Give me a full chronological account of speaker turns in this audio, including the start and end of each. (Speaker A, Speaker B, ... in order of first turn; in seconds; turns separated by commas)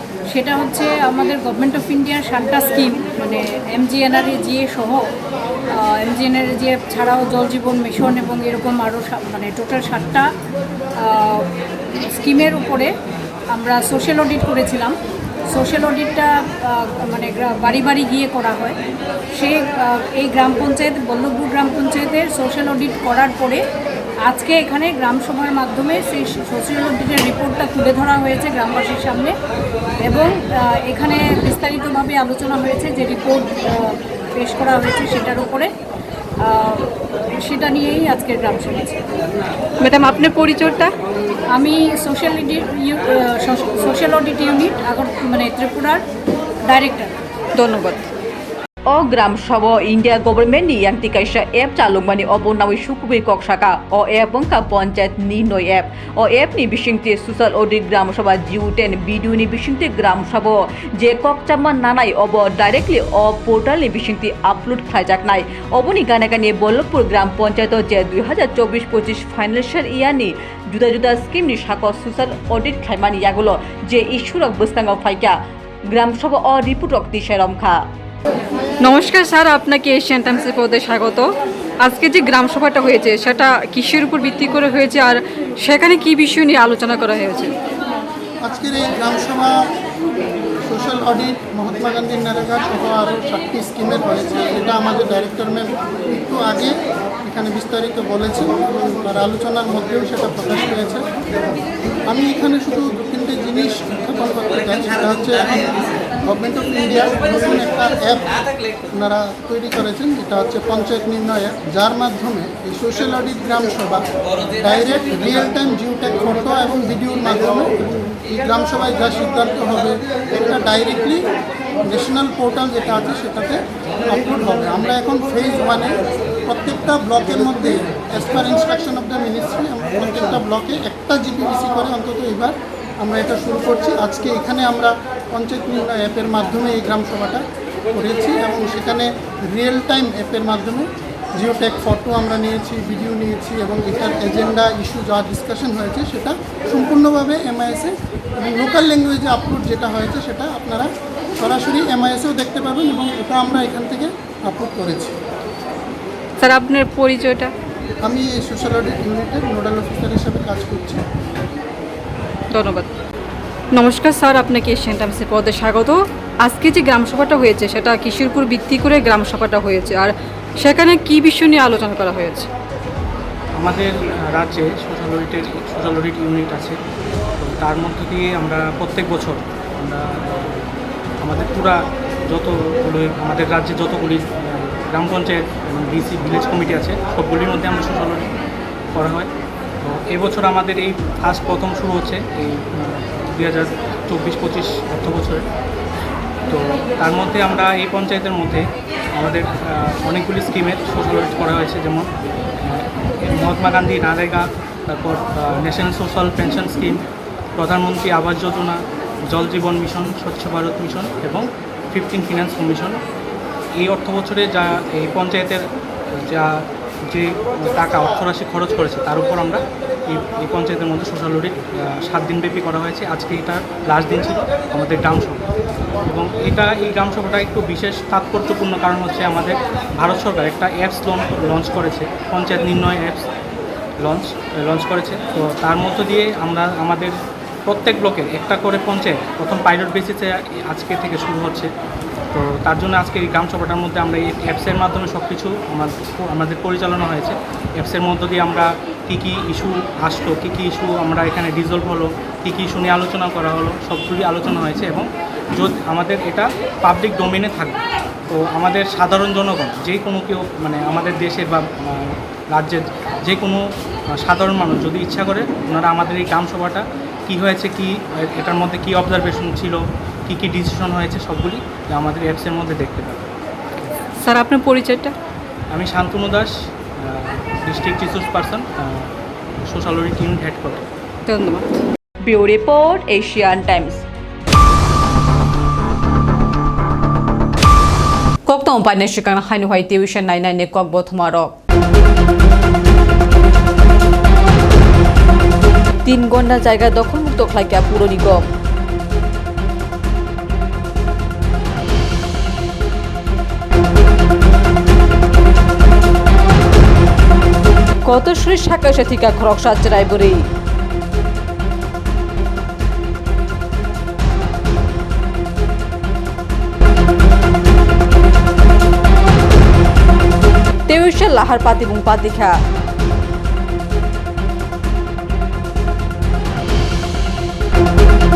Speaker A: 0.3-5.0, Speaker A: 5.8-10.3, Speaker A: 11.0-11.4, Speaker A: 12.1-12.9, Speaker A: 13.5-14.9, Speaker A: 15.5-18.8, Speaker A: 19.3-23.6, Speaker A: 24.3-29.3, Speaker A: 30.0-35.7, Speaker A: 36.4-36.8, Speaker A: 37.5-39.0, Speaker B: 39.8-40.9, Speaker A: 41.5-46.0, Speaker A: 46.7-47.1, Speaker B: 47.6-48.1, Speaker C: 48.9-75.3, Speaker C: 75.9-77.8, Speaker B: 78.8-81.3, Speaker B: 81.8-87.5, Speaker D: 88.4-89.5, Speaker D: 90.7-96.7, Speaker D: 97.2-101.0, Speaker D: 102.1-105.7, Speaker D: 106.3-108.3, Speaker D: 109.0-114.0, Speaker D: 114.6-121.2, Speaker D: 121.9-126.0, Speaker D: 126.5-137.4, Speaker D: 137.9-140.8, Speaker D: 141.4-150.9, Speaker D: 151.4-155.1, Speaker B: 156.4-157.5, Speaker D: 158.1-161.0, Speaker B: 162.5-162.9, Speaker B: 163.8-172.5, Speaker E: 173.6-176.8, Speaker E: 177.4-180.7, Speaker E: 181.2-188.3, Speaker E: 188.9-189.3, Speaker E: 189.8-195.4, Speaker E: 196.5-198.6, Speaker E: 199.2-202.1, Speaker E: 202.6-207.0, Speaker E: 207.6-208.8, Speaker E: 209.3-213.0, Speaker E: 213.8-215.6, Speaker E: 217.1-225.4, Speaker E: 226.1-233.2, Speaker E: 234.0-237.1, Speaker E: 237.7-241.7, Speaker E: 242.3-257.8, Speaker E: 258.3-263.6, Speaker E: 264.2-273.3, Speaker B: 274.2-275.1, Speaker E: 275.7-279.1, Speaker E: 279.6-280.8, Speaker B: 281.3-281.8, Speaker C: 282.2-284.0, Speaker C: 288.5-291.5, Speaker C: 296.1-298.4, Speaker C: 308.1-310.4, Speaker C: 320.9-322.5